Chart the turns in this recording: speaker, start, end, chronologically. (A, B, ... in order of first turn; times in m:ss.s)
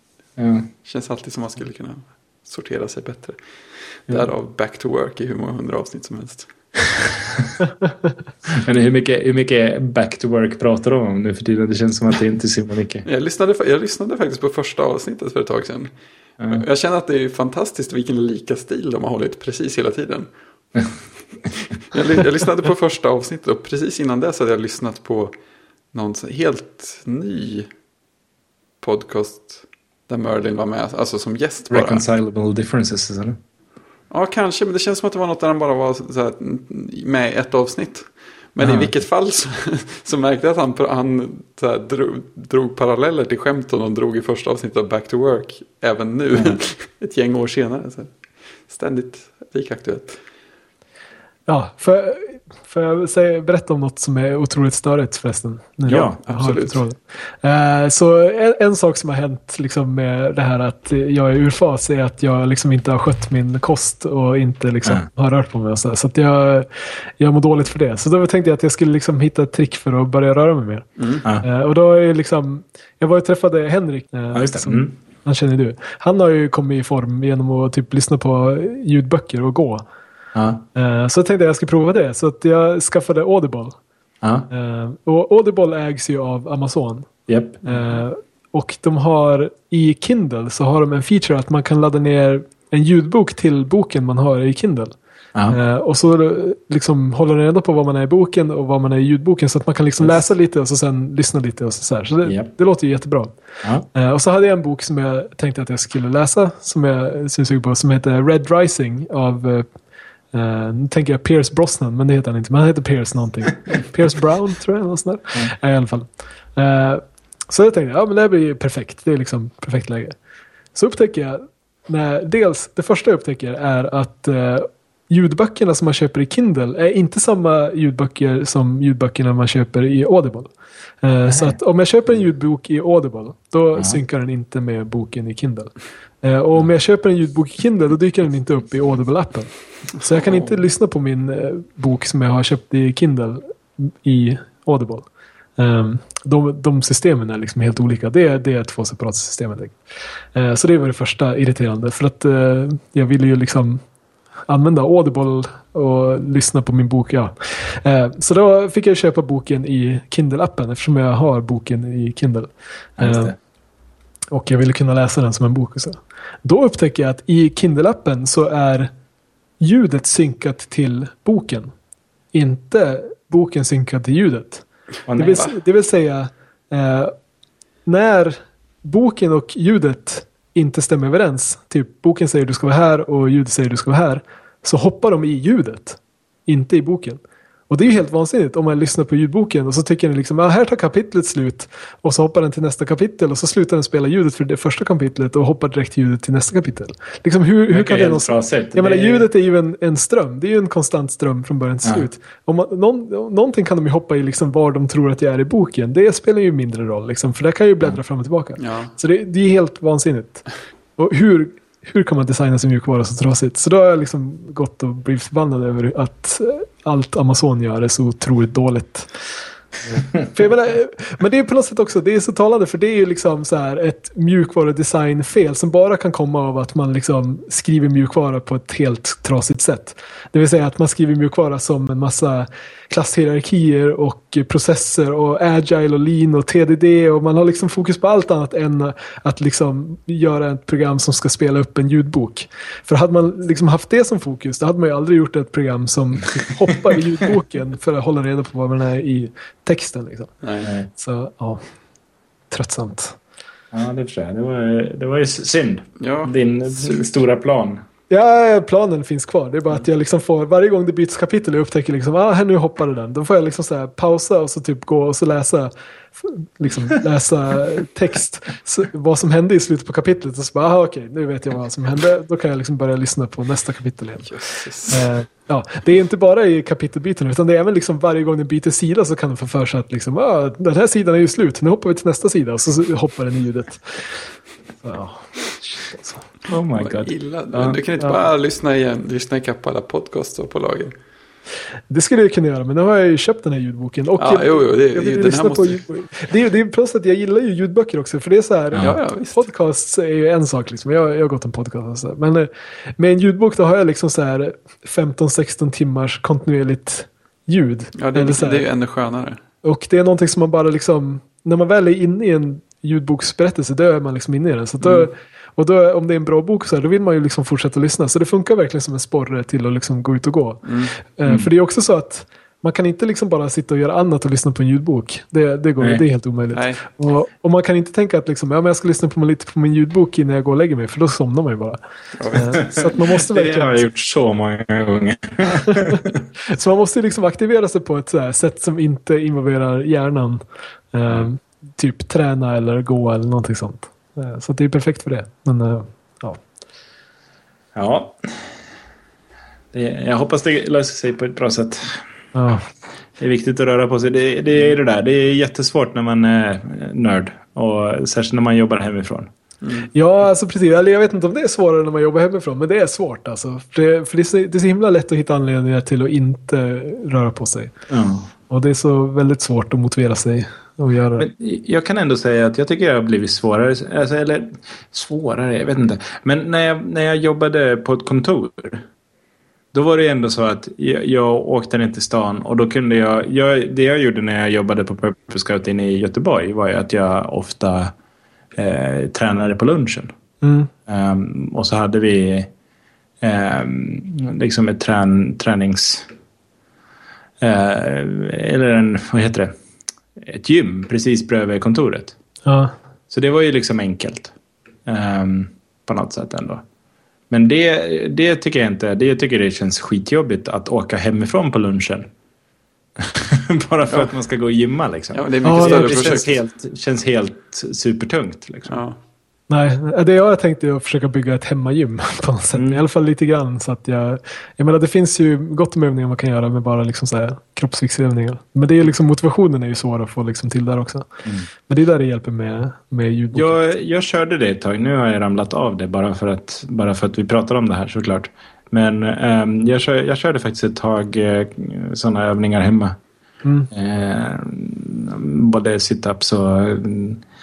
0:00.4-0:00.7 A
0:00.8-0:03.4 B
0:04.1-0:06.5 B
0:08.6-0:13.1 A
0:13.0-0:15.9 B
0:16.4-0:16.7 A
0:16.5-0:20.9 B
0:21.5-0:25.3 B
0:25.9-0:27.7 B
0:28.8-0:32.0 B
0:31.7-0:33.4 A
0:34.1-0:48.1 B
0:38.6-0:38.9 A
0:48.7-0:50.2 B
0:51.5-1:19.8 C
0:55.9-0:56.3 A
0:56.2-0:56.8 B
1:11.0-1:11.3 B
1:14.3-1:15.0 A
1:20.4-1:20.6 A
1:20.7-1:23.8 C
1:24.2-1:24.5 A
1:24.5-1:35.0 C
1:27.3-1:27.6 A
1:27.6-1:28.0 B
1:35.3-1:35.6 A
1:35.5-1:43.3 C
1:42.2-1:42.5 A
1:43.9-1:49.7 C
1:50.3-2:00.2 C
2:00.7-2:10.5 C
2:11.0-2:15.7 C
2:16.2-2:29.8 C
2:20.0-2:20.6 B
2:30.3-2:33.8 C
2:34.5-2:42.5 C
2:43.0-2:43.4 A
2:43.0-2:43.4 C
2:44.3-2:48.9 C
2:49.6-2:51.7 C
2:52.3-2:54.6 C
2:55.1-2:55.4 A
2:55.2-2:57.1 C
2:57.9-3:30.4 C
3:17.7-3:19.3 A
3:21.8-3:22.1 A
3:28.6-3:28.9 B
3:31.0-3:39.3 C
3:40.0-4:11.6 C
4:10.4-4:10.7 B
4:10.6-4:10.9 A
4:12.5-4:13.2 C
4:13.7-4:17.8 A
4:16.0-4:17.1 B
4:18.1-4:44.1 C
4:34.2-4:35.1 B
4:44.8-4:46.3 C
4:46.5-4:47.9 A
4:46.7-4:50.9 B
4:51.9-5:08.7 C
4:54.2-4:55.8 B
4:58.7-4:59.0 A
4:58.8-4:59.4 B
5:08.0-5:09.4 B
5:09.6-5:31.8 C
5:14.8-5:15.1 B
5:20.6-5:21.0 B
5:21.2-5:21.5 A
5:25.8-5:26.0 A
5:26.5-5:26.8 B
5:32.2-5:32.9 B
5:32.3-5:33.9 C
5:32.6-5:36.1 A
5:36.4-5:40.4 C
5:40.9-5:46.4 C
5:47.8-5:48.4 A
5:49.7-5:52.0 A
5:52.3-5:52.7 C
5:53.2-5:59.3 A
5:59.6-5:59.9 B
5:59.9-6:07.8 C
6:07.9-6:08.4 A
6:08.4-6:11.3 C
6:11.2-6:18.9 A
6:19.7-6:27.9 A
6:28.6-6:30.1 A
6:30.4-6:30.7 C
6:30.9-6:32.5 A
6:33.2-6:36.1 A
6:37.4-6:39.5 A
6:40.2-6:42.2 A
6:42.4-6:42.7 C
6:43.1-6:44.3 A
6:44.9-6:46.6 A
6:47.3-6:52.1 A
6:53.0-6:58.8 A
6:53.8-6:54.1 B
6:55.1-6:56.4 B
6:55.4-6:56.2 C
6:58.7-6:59.0 B
6:59.5-7:13.6 C
7:02.5-7:02.8 A
7:11.2-7:11.5 A
7:13.3-7:23.0 A
7:23.4-7:23.7 C
7:23.7-7:27.2 A